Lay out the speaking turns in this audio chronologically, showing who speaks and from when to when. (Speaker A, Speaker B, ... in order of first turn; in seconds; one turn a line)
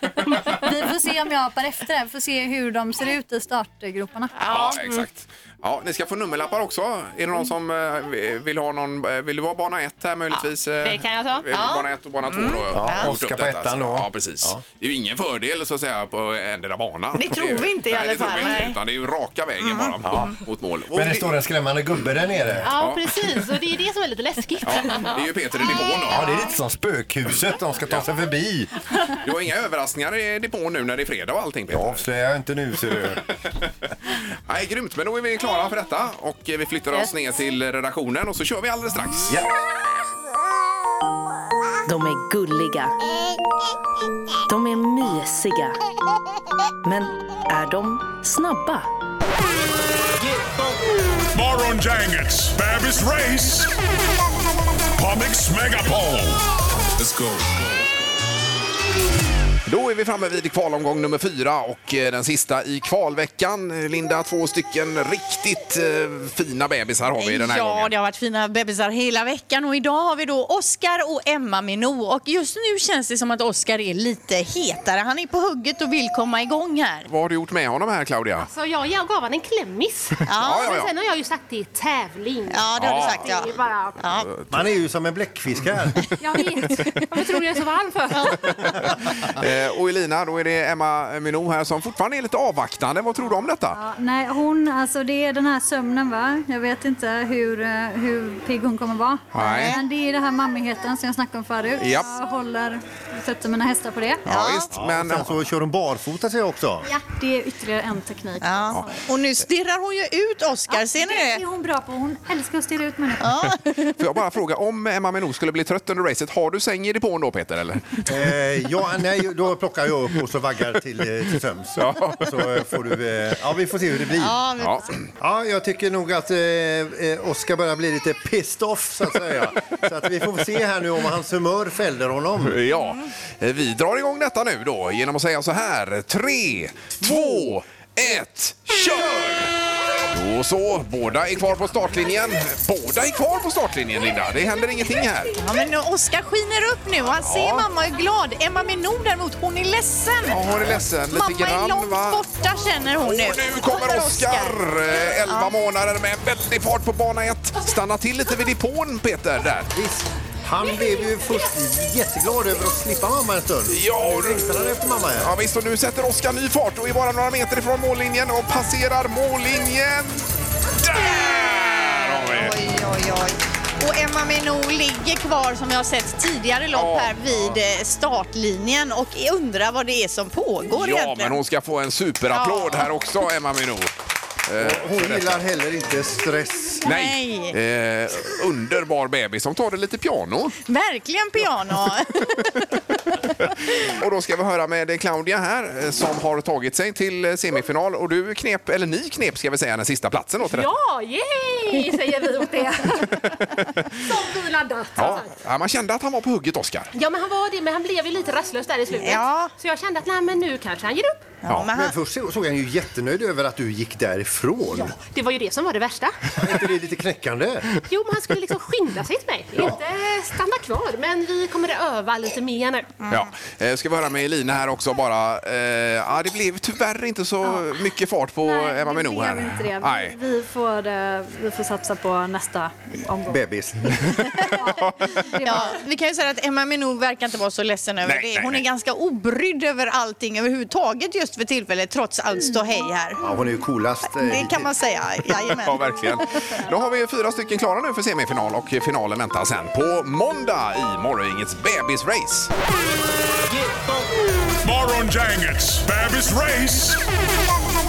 Speaker A: 0.6-4.3
Speaker B: 4.3-4.8
Speaker C: 4.4-21.3
Speaker D: 10.8-11.5
Speaker B: 11.5-13.1
Speaker E: 12.7-14.6
Speaker B: 17.1-18.8
Speaker B: 19.6-19.9
Speaker E: 20.0-20.3
Speaker E: 20.9-22.7
Speaker C: 22.6-23.1
Speaker D: 22.6-25.2
Speaker C: 24.6-26.3
Speaker E: 26.0-28.7
Speaker C: 29.1-32.0
Speaker E: 31.7-33.2
Speaker C: 34.5-39.4
Speaker F: 41.9-42.9
Speaker F: 44.5-45.8
Speaker F: 46.8-48.9
Speaker G: 51.3-53.7
Speaker G: 55.0-56.4
Speaker G: 57.0-57.9
Speaker C: 59.6-67.9
Speaker B: 67.2-77.1
Speaker C: 77.1-78.5
Speaker D: 78.4-84.0
Speaker B: 80.2-80.7
Speaker C: 80.4-80.9
Speaker B: 82.5-84.3
Speaker C: 82.8-83.4
Speaker C: 84.1-84.6
Speaker E: 84.5-86.0
Speaker D: 86.2-88.6
Speaker C: 89.2-93.8
Speaker A: 93.7-104.2
Speaker C: 99.3-99.8
Speaker B: 99.4-99.8
Speaker C: 101.8-102.1
Speaker C: 104.2-105.4
Speaker B: 104.3-104.7
Speaker E: 104.7-106.9
Speaker A: 106.8-109.0
Speaker B: 108.4-111.4
Speaker A: 110.7-113.3
Speaker B: 113.2-114.0
Speaker C: 114.0-118.1
Speaker E: 118.0-124.4
Speaker C: 121.8-122.3
Speaker B: 124.2-125.0
Speaker C: 124.6-124.9
Speaker E: 125.2-132.6
Speaker C: 132.4-139.5
Speaker C: 140.1-145.3
Speaker B: 145.3-154.6
Speaker C: 147.2-147.7
Speaker C: 150.3-152.2
Speaker C: 153.0-159.7
Speaker B: 155.3-155.5
Speaker E: 159.7-165.3
Speaker C: 163.7-164.4
Speaker C: 165.2-170.2
Speaker C: 170.8-172.6
Speaker B: 170.9-181.4
Speaker C: 176.7-177.6
Speaker C: 180.7-183.9
Speaker B: 182.3-182.9
Speaker C: 184.4-185.4
Speaker E: 184.6-186.8
Speaker B: 186.8-187.5
Speaker C: 186.8-190.6
Speaker B: 190.7-192.7
Speaker C: 193.7-200.7
Speaker D: 200.4-203.2
Speaker C: 203.5-204.0
Speaker D: 204.1-205.3
Speaker C: 204.9-206.9
Speaker D: 206.9-211.3
Speaker B: 208.9-209.5
Speaker B: 211.4-211.9
Speaker E: 211.7-215.0
Speaker D: 214.8-216.2
Speaker E: 216.3-217.7
Speaker D: 217.9-222.9
Speaker C: 223.1-230.2
Speaker A: 228.4-233.4
Speaker E: 233.3-234.4
Speaker A: 235.2-235.7
Speaker B: 235.4-243.2
Speaker C: 238.0-238.6
Speaker E: 243.2-244.7
Speaker B: 244.1-246.2
Speaker C: 245.3-252.5
Speaker G: 254.6-257.0